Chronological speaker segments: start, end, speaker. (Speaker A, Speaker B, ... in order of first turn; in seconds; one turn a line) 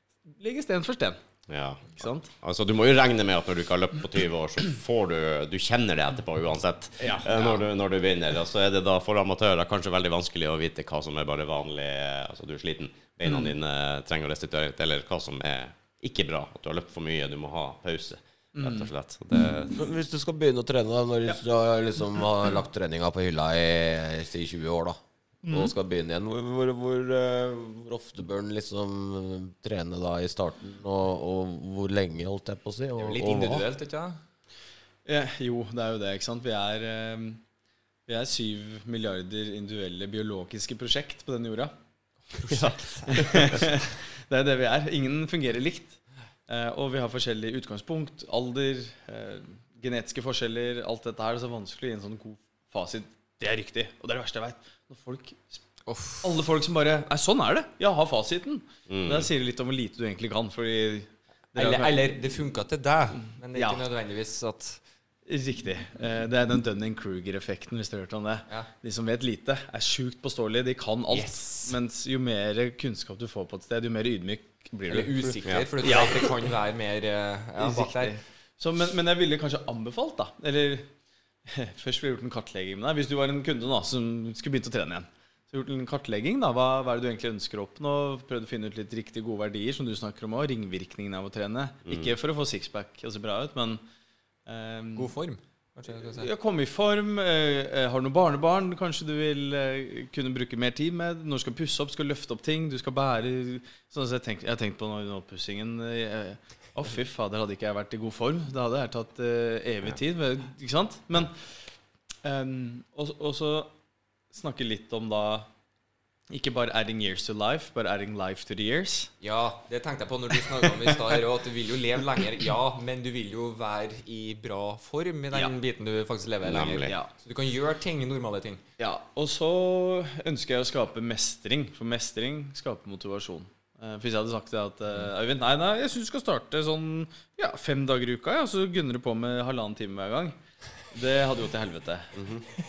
Speaker A: 0.3-1.2
Speaker B: 1.5-19.8
Speaker A: 2.0-2.3
Speaker A: 7.0-7.5
Speaker A: 18.6-18.9
Speaker C: 19.7-33.6
Speaker A: 25.4-25.7
Speaker D: 33.0-34.2
Speaker A: 35.1-37.4
Speaker A: 38.1-41.7
Speaker D: 42.3-43.2
Speaker B: 42.5-43.6
Speaker A: 43.1-55.6
Speaker D: 55.9-56.4
Speaker A: 56.2-62.1
Speaker B: 58.9-59.3
Speaker D: 61.5-64.8
Speaker A: 63.5-63.8
Speaker A: 65.3-76.3
Speaker D: 71.1-71.7
Speaker D: 74.9-78.2
Speaker A: 77.6-80.9
Speaker A: 81.5-93.8
Speaker B: 91.9-92.1
Speaker A: 94.5-95.1
Speaker D: 95.0-96.3
Speaker A: 95.9-111.4
Speaker A: 112.2-113.7
Speaker A: 114.3-115.5
Speaker A: 116.3-119.1
Speaker D: 119.2-128.6
Speaker B: 126.4-126.9
Speaker A: 128.8-140.3
Speaker A: 140.9-142.2
Speaker B: 142.2-142.4